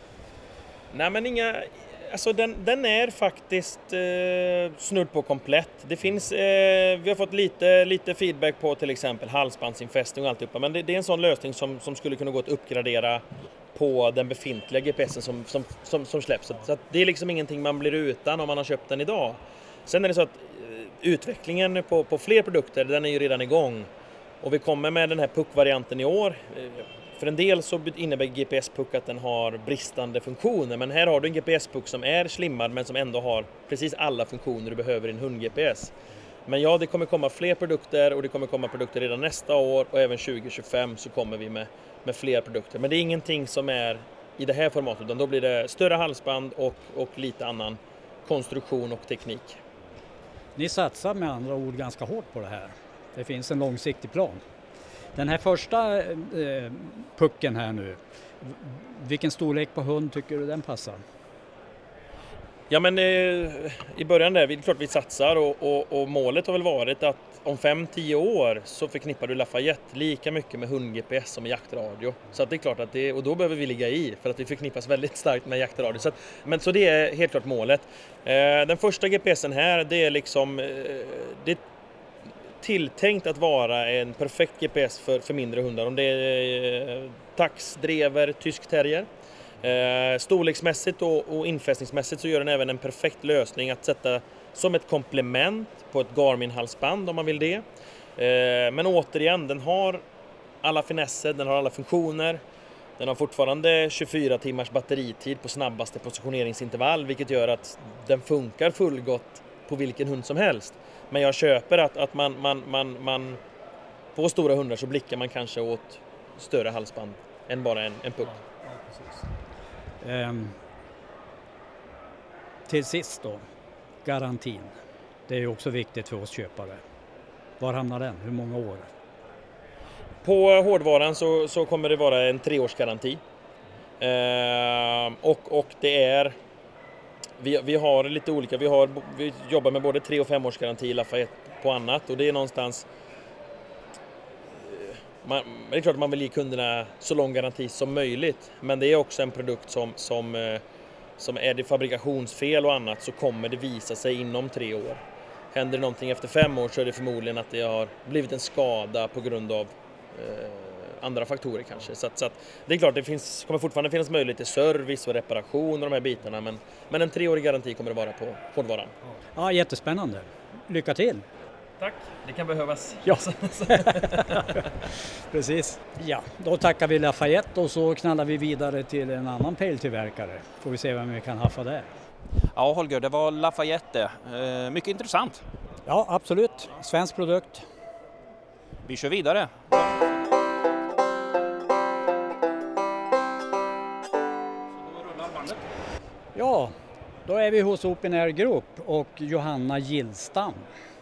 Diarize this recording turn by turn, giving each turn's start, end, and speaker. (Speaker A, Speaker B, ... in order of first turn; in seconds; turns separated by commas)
Speaker A: 0.9-13.2, Speaker A: 13.7-23.9, Speaker A: 24.4-35.9, Speaker A: 36.5-49.6, Speaker B: 50.5-54.4, Speaker B: 55.1-61.0, Speaker A: 62.7-81.6, Speaker A: 82.6-89.1, Speaker A: 89.6-97.6, Speaker A: 98.2-100.0, Speaker A: 100.6-102.4, Speaker A: 103.0-113.4, Speaker A: 114.1-118.4, Speaker B: 118.8-119.1, Speaker B: 120.0-120.6, Speaker B: 122.7-123.4, Speaker B: 124.0-124.7, Speaker B: 125.3-126.8, Speaker B: 127.6-128.9, Speaker A: 130.2-133.2, Speaker A: 134.0-136.3, Speaker A: 137.4-142.8, Speaker A: 144.5-150.6, Speaker A: 151.2-168.9, Speaker B: 169.3-171.2, Speaker A: 171.8-174.6, Speaker B: 173.1-174.6, Speaker B: 175.3-181.9, Speaker C: 182.5-185.4, Speaker B: 185.8-187.6, Speaker C: 188.8-189.8, Speaker B: 196.3-196.7, Speaker B: 197.2-200.7